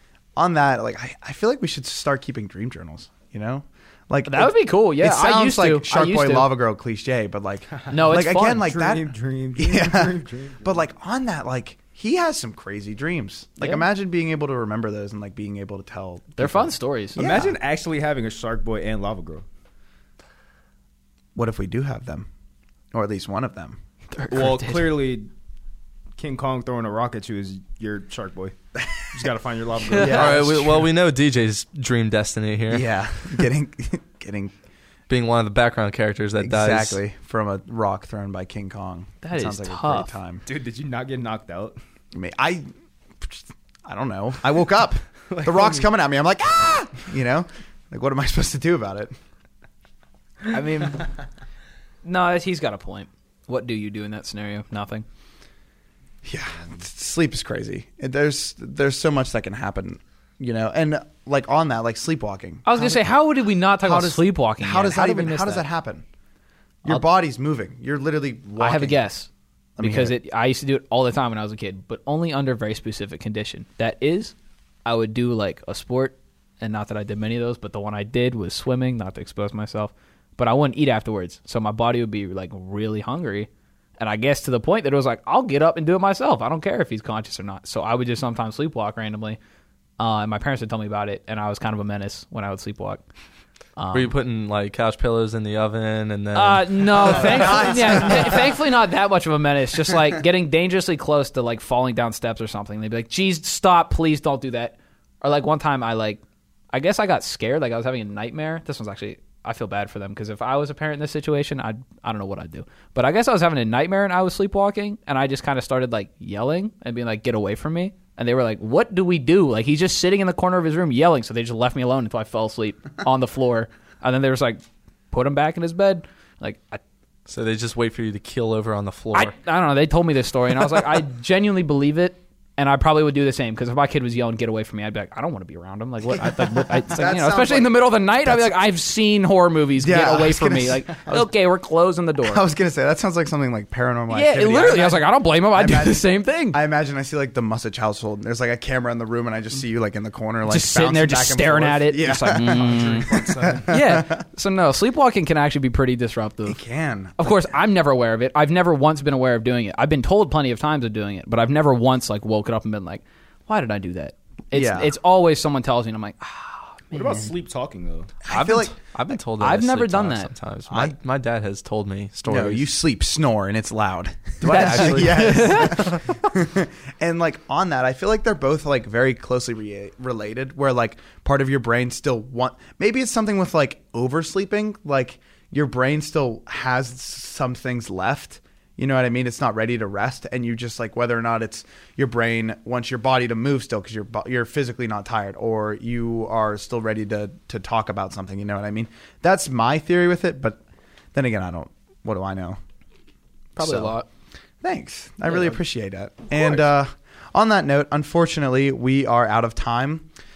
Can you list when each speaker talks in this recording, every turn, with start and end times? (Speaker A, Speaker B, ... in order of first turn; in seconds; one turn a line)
Speaker A: 0.3-17.6
Speaker B: 4.2-6.5
Speaker C: 7.7-10.9
Speaker B: 7.9-8.7
Speaker B: 16.4-17.2
Speaker C: 17.1-19.4
Speaker A: 21.3-22.3
Speaker A: 22.9-23.8
Speaker B: 24.1-24.9
Speaker C: 24.3-25.3
Speaker C: 26.1-28.6
Speaker C: 29.1-30.5
Speaker B: 29.9-30.3
Speaker A: 29.9-30.9
Speaker D: 30.0-33.4
Speaker A: 32.7-34.5
Speaker D: 35.1-37.0
Speaker A: 36.4-40.4
Speaker B: 39.2-40.1
Speaker C: 40.5-41.8
Speaker A: 42.1-42.7
Speaker A: 43.2-49.1
Speaker C: 45.3-45.9
Speaker B: 50.5-51.1
Speaker B: 52.0-55.0
Speaker A: 56.2-63.2
Speaker B: 62.6-65.7
Speaker A: 63.8-66.0
Speaker A: 66.8-69.0
Speaker B: 68.6-89.4
Speaker A: 69.8-70.2
Speaker B: 90.0-93.0
Speaker B: 93.8-94.1
Speaker D: 93.9-97.8
Speaker B: 96.3-106.2
Speaker A: 97.1-98.6
Speaker B: 106.7-126.8
Speaker D: 127.3-129.3
Speaker B: 129.1-142.4
Speaker A: 136.1-138.6
Speaker A: 139.8-141.3
Speaker A: 142.2-154.2
Speaker B: 144.1-146.6
Speaker B: 150.5-153.1
Speaker C: 152.3-153.7
Speaker B: 153.7-156.6
Speaker A: 156.4-157.6
Speaker B: 157.2-166.9
Speaker A: 164.5-164.9
Speaker C: 166.9-168.1
Speaker A: 168.2-168.8
Speaker D: 168.3-172.7
Speaker B: 169.4-170.3
Speaker A: 170.7-170.9
Speaker A: 172.3-200.6
Speaker D: 174.4-176.0
Speaker B: 174.4-175.9
Speaker A: 201.1-202.6
Speaker A: 203.6-203.9
Speaker B: 203.6-204.1
Speaker A: 204.6-210.1